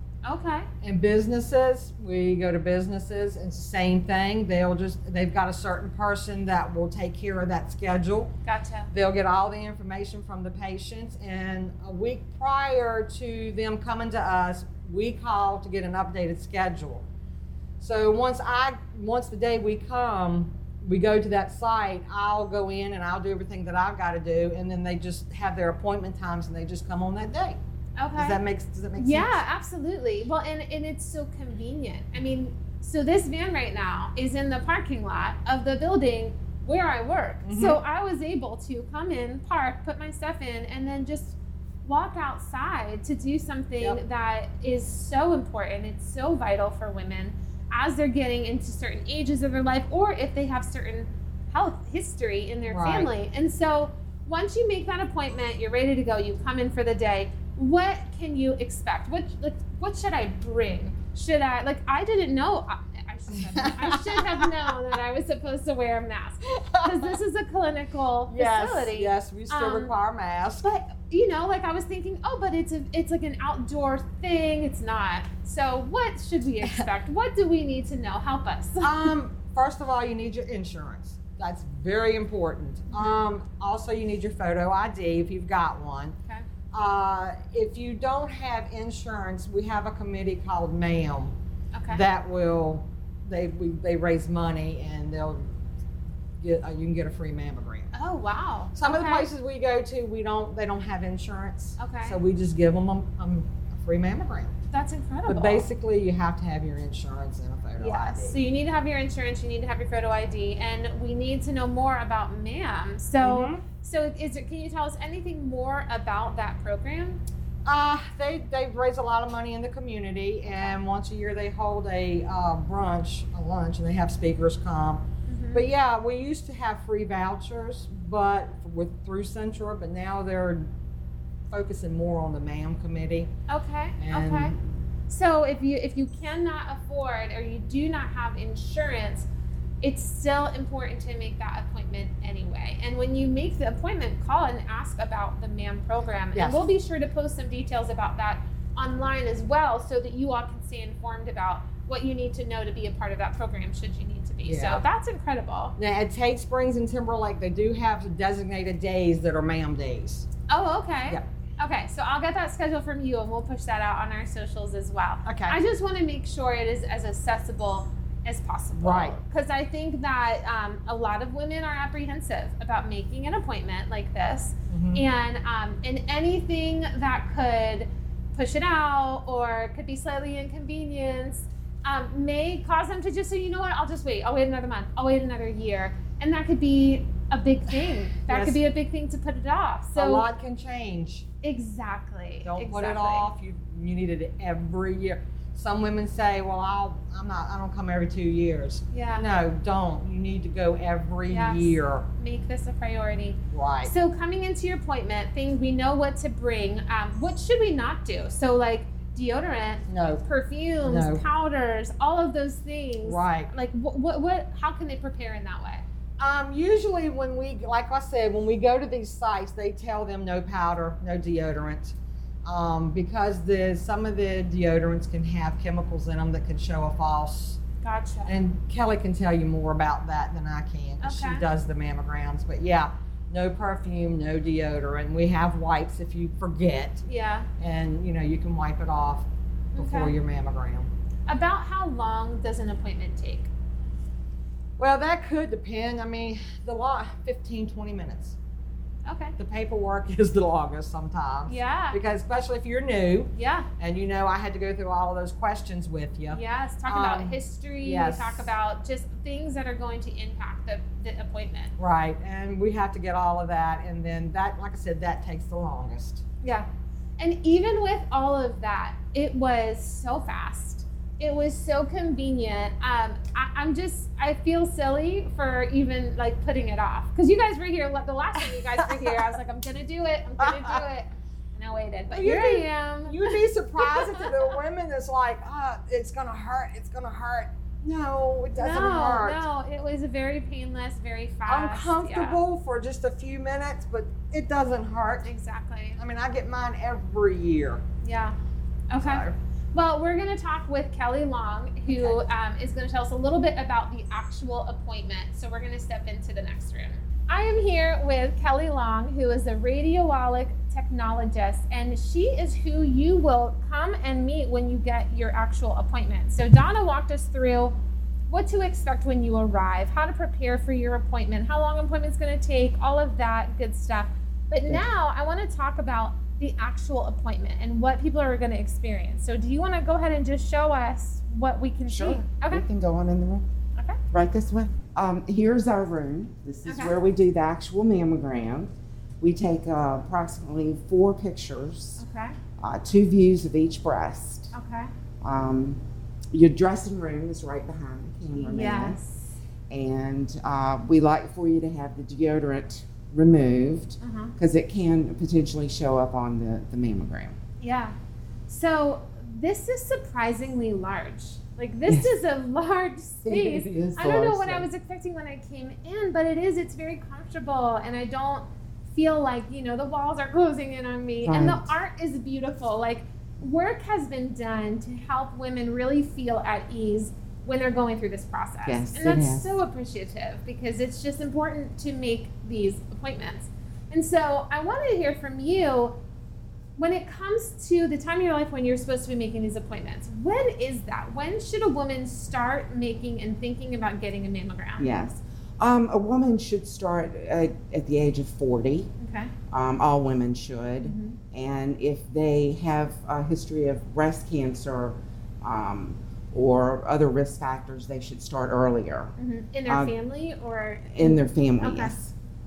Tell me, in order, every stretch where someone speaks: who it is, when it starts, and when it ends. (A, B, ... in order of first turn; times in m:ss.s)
0:00.2-0:00.7 A
0:00.8-0:08.3 B
0:08.4-0:08.9 A
0:08.9-0:17.0 B
0:17.8-0:27.6 B
0:28.0-0:28.4 A
0:28.2-0:29.4 B
0:29.0-1:09.9 A
0:37.4-0:37.8 B
0:52.7-0:53.1 B
1:03.4-1:04.5 B
1:06.7-1:07.2 B
1:08.3-1:10.7 B
1:10.6-1:19.1 A
1:18.8-1:26.1 B
1:22.9-1:23.2 A
1:26.7-1:31.3 B
1:31.7-1:32.0 A
1:31.9-1:35.4 B
1:36.4-1:37.9 B
1:37.9-1:39.3 A
1:38.8-1:44.5 B
1:41.8-1:42.2 A
1:44.7-1:45.7 A
1:45.3-1:48.4 B
1:47.8-1:57.2 A
1:53.2-1:53.6 B
1:57.7-2:05.0 B
2:00.5-2:00.8 A
2:05.3-2:05.6 A
2:05.5-2:10.7 B
2:11.5-2:13.3 B
2:13.5-2:14.6 A
2:14.0-2:14.6 B
2:15.1-2:19.3 A
2:19.8-2:35.8 A
2:26.4-2:26.6 B
2:34.4-2:34.8 B
2:35.8-2:40.3 B
2:40.5-3:10.3 A
2:45.3-2:45.6 B
2:48.8-2:49.2 B
2:54.7-2:55.0 B
3:08.2-3:08.6 B
3:10.0-3:11.2 B
3:11.4-3:13.3 A
3:12.4-3:22.0 B
3:18.9-3:19.3 A
3:21.3-3:35.8 A
3:23.5-3:23.9 B
3:29.9-3:30.2 B
3:30.8-3:31.2 B
3:33.0-3:33.5 B
3:36.2-3:41.9 B
3:42.4-3:47.6 B
3:47.8-3:48.3 A
3:48.3-3:57.0 B
3:51.0-3:51.4 A
3:57.0-3:57.5 A
3:57.6-4:00.9 B
3:59.7-4:00.1 A
4:01.3-4:03.5 A
4:04.8-4:08.4 B
4:09.0-4:09.4 A
4:09.4-4:18.5 B
4:11.5-4:12.0 A
4:13.3-4:13.7 A
4:16.3-4:21.7 A
4:21.8-4:26.2 B
4:27.2-4:44.3 A
4:42.1-4:49.4 B
4:48.6-4:52.4 A
4:51.5-4:55.3 B
4:55.2-4:56.0 A
4:56.0-4:57.8 B
4:58.0-4:58.4 A
4:58.9-5:17.8 A
4:59.0-4:59.3 B
5:01.9-5:02.2 B
5:18.3-5:32.6 A
5:31.9-5:33.4 C
5:34.1-5:42.0 C
5:36.6-5:37.0 A
5:42.0-5:42.4 A
5:42.6-5:44.5 C
5:44.5-5:44.9 A
5:45.2-5:45.8 C
5:46.3-5:49.0 C
5:48.4-5:49.3 A
5:49.7-5:57.4 C
5:54.0-5:54.4 A
5:57.6-5:57.9 A
5:58.5-6:26.0 A
6:01.9-6:02.2 C
6:03.2-6:04.7 C
6:11.2-6:11.8 C
6:18.7-6:19.6 C
6:26.8-6:34.9 A
6:34.8-6:38.9 C
6:39.0-6:39.3 A
6:39.5-6:49.1 C
6:40.8-6:41.2 A
6:49.2-6:52.0 A
6:49.7-6:50.0 C
6:50.9-6:52.1 C